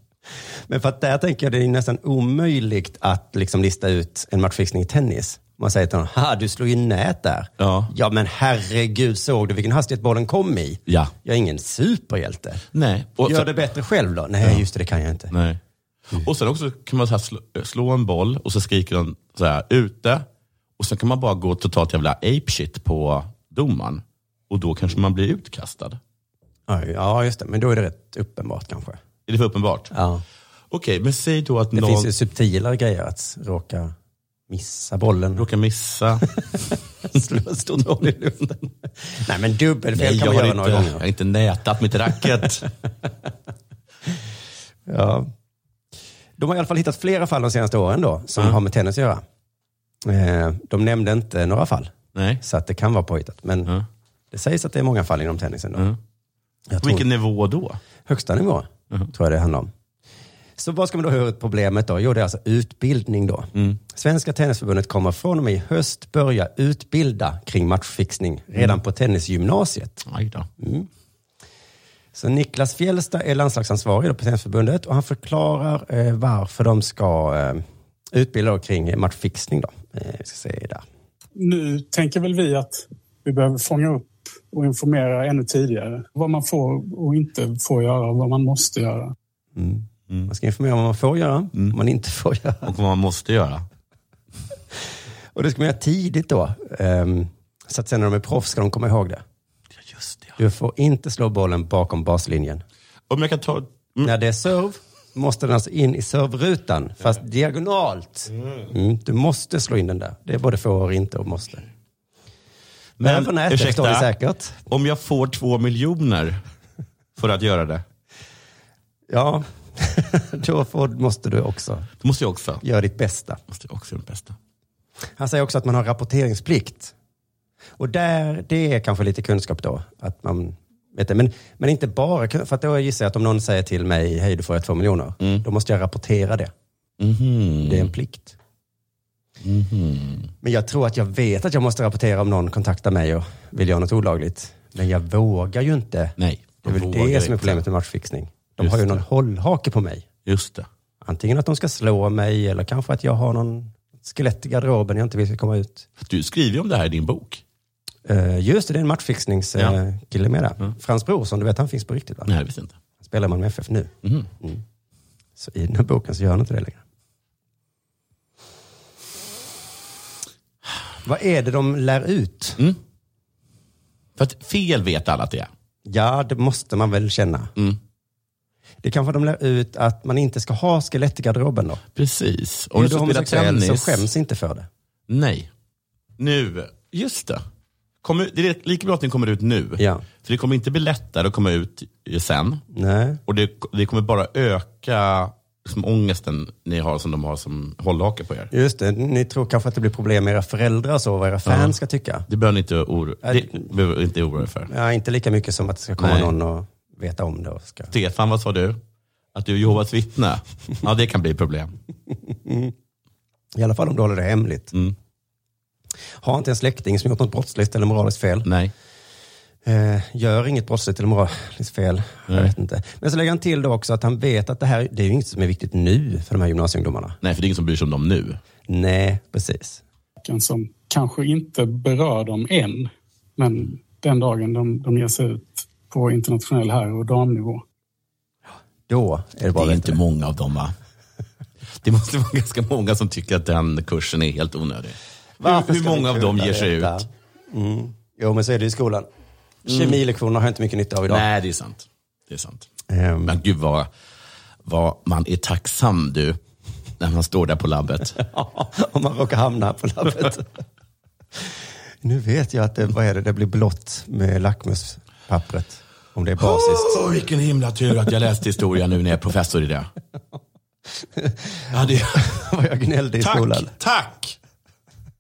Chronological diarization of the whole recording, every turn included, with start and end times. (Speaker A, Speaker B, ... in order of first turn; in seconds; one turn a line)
Speaker A: 0.7-12.6
Speaker B: 7.6-7.9
Speaker B: 10.9-11.1
Speaker B: 12.7-13.5
Speaker A: 13.2-15.3
Speaker B: 15.3-15.6
Speaker B: 16.1-20.3
Speaker B: 20.8-26.0
Speaker A: 26.7-29.0
Speaker B: 29.3-29.9
Speaker A: 29.9-30.2
Speaker B: 30.7-32.1
Speaker A: 31.7-33.9
Speaker A: 34.5-35.5
Speaker B: 35.4-36.3
Speaker A: 36.5-41.0
Speaker B: 39.9-42.7
Speaker A: 44.9-45.3
Speaker A: 46.4-49.2
Speaker A: 50.0-53.7
Speaker B: 52.1-52.4
Speaker A: 54.3-55.9
Speaker A: 56.7-57.1
Speaker B: 56.8-57.8
Speaker A: 58.1-59.7
Speaker A: 60.6-70.0
Speaker B: 70.1-70.5
Speaker A: 70.6-70.9
Speaker A: 72.2-80.8
Speaker C: 81.4-89.1
Speaker A: 89.6-92.7
Speaker B: 92.6-93.7
Speaker A: 95.3-99.2
Speaker B: 99.8-100.4
Speaker A: 100.4-102.6
Speaker B: 103.1-104.1
Speaker A: 104.0-111.6
Speaker B: 108.4-108.7
Speaker B: 113.0-114.1
Speaker A: 113.0-114.6
Speaker B: 114.7-116.4
Speaker B: 117.2-117.8
Speaker A: 119.1-121.9
Speaker B: 122.0-122.6
Speaker A: 122.6-123.4
Speaker B: 123.5-124.4
Speaker A: 125.2-126.9
Speaker A: 127.8-136.5
Speaker B: 135.2-135.4
Speaker B: 137.0-137.9
Speaker A: 137.6-138.4
Speaker B: 139.4-140.3
Speaker A: 140.4-150.1
Speaker B: 146.2-147.7
Speaker B: 148.6-149.0
Speaker B: 150.3-150.7
Speaker A: 151.0-155.9
Speaker B: 156.0-157.4
Speaker A: 158.1-162.3
Speaker B: 162.3-162.8
Speaker A: 163.0-164.6
Speaker B: 164.0-164.3
Speaker A: 165.4-166.8
Speaker A: 171.1-172.6
Speaker B: 174.2-175.5
Speaker A: 175.9-177.5
Speaker A: 178.8-181.8
Speaker B: 181.9-184.1
Speaker A: 182.8-184.7
Speaker B: 185.1-185.5
Speaker B: 186.2-187.4
Speaker B: 188.0-192.6
Speaker A: 189.8-190.0
Speaker A: 192.7-193.2
Speaker B: 193.3-198.5
Speaker A: 198.5-202.3
Speaker B: 201.4-201.8
Speaker B: 202.3-204.7
Speaker A: 203.2-203.7
Speaker A: 204.7-207.9
Speaker B: 206.0-206.3
Speaker B: 207.9-208.8
Speaker B: 209.3-211.7
Speaker A: 212.3-212.7
Speaker A: 213.6-214.7
Speaker A: 216.2-218.5
Speaker B: 218.4-218.7
Speaker A: 219.7-227.2
Speaker B: 227.2-228.4
Speaker A: 228.7-229.8
Speaker C: 230.2-237.6
Speaker A: 238.9-240.0
Speaker B: 239.5-240.8
Speaker B: 241.8-247.1
Speaker A: 245.4-249.1
Speaker B: 249.7-250.0
Speaker A: 249.7-251.3
Speaker B: 251.1-252.7
Speaker A: 252.9-253.3
Speaker B: 253.2-253.9
Speaker B: 254.7-256.4
Speaker B: 257.0-258.2
Speaker A: 258.2-260.5
Speaker A: 262.0-267.0
Speaker B: 266.4-269.9
Speaker A: 271.2-273.7
Speaker B: 271.7-272.3
Speaker B: 273.2-274.4